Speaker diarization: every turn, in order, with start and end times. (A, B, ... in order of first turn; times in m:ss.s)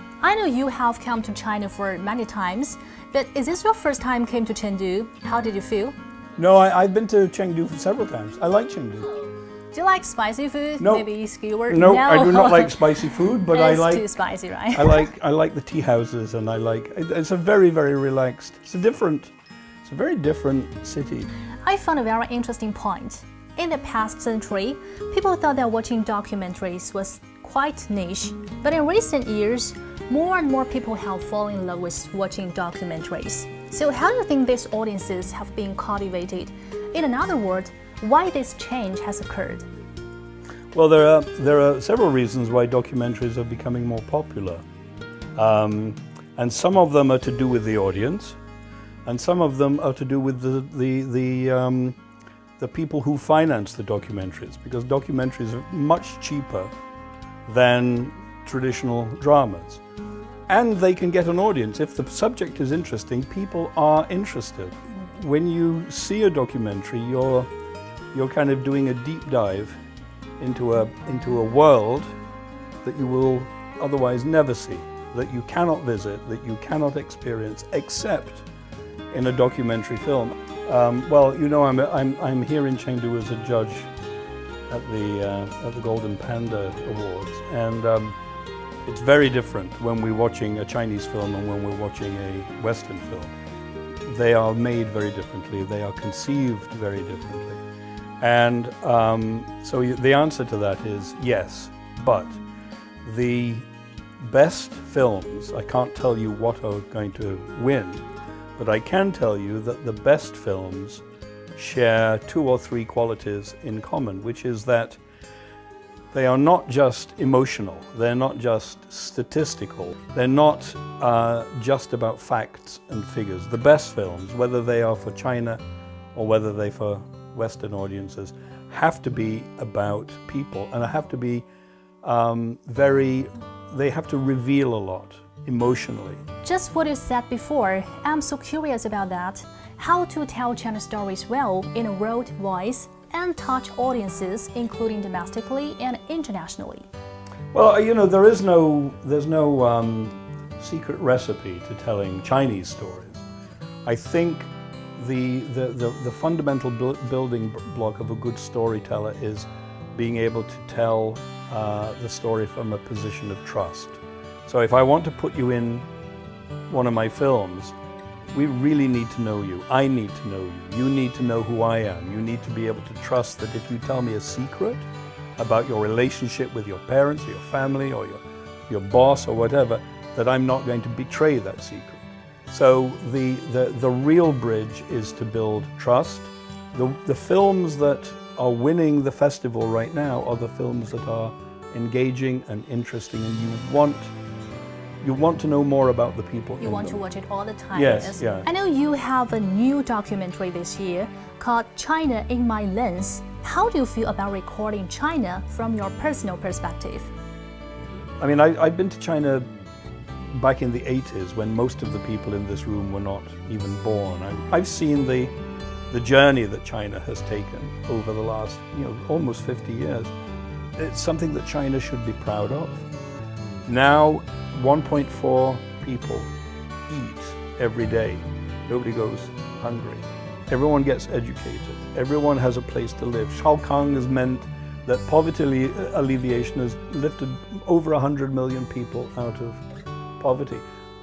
0:00.2-0:06.0 A
0:06.4-0:09.2 B
0:09.7-0:12.9 A
0:10.8-0:11.0 B
0:11.7-0:14.0 B
0:13.4-0:15.1 A
0:14.7-0:21.3 B
0:21.6-0:39.7 A
0:40.7-0:44.6 B
0:45.3-0:48.4 B
0:49.0-0:52.0 B
0:52.6-0:56.7 B
0:57.4-0:59.8 B
1:00.5-1:07.5 B
1:08.1-1:09.8 B
1:10.4-1:12.1 B
1:12.8-1:18.4 B
1:19.1-1:23.9 B
1:24.7-1:28.2 B
1:28.8-1:33.3 B
1:34.0-1:37.6 B
1:38.2-1:42.4 B
1:43.0-1:43.6 B
1:44.2-1:48.0 B
1:48.6-1:51.0 B
1:51.5-1:55.0 B
1:56.1-2:05.6 B
2:06.1-2:11.4 B
2:12.0-2:16.2 B
2:16.4-2:26.9 A
2:27.5-2:33.2 B
2:33.8-2:45.9 B
2:46.7-2:47.7 B
2:48.3-3:14.1 B
3:15.0-3:17.0 B
3:16.6-3:27.1 A
3:17.7-3:18.5 B
3:28.2-3:29.5 B
3:30.2-3:35.3 B
3:35.9-3:40.1 B
3:40.8-3:42.8 B
3:43.6-3:46.3 B
3:46.9-3:59.6 B
4:00.2-4:00.6 B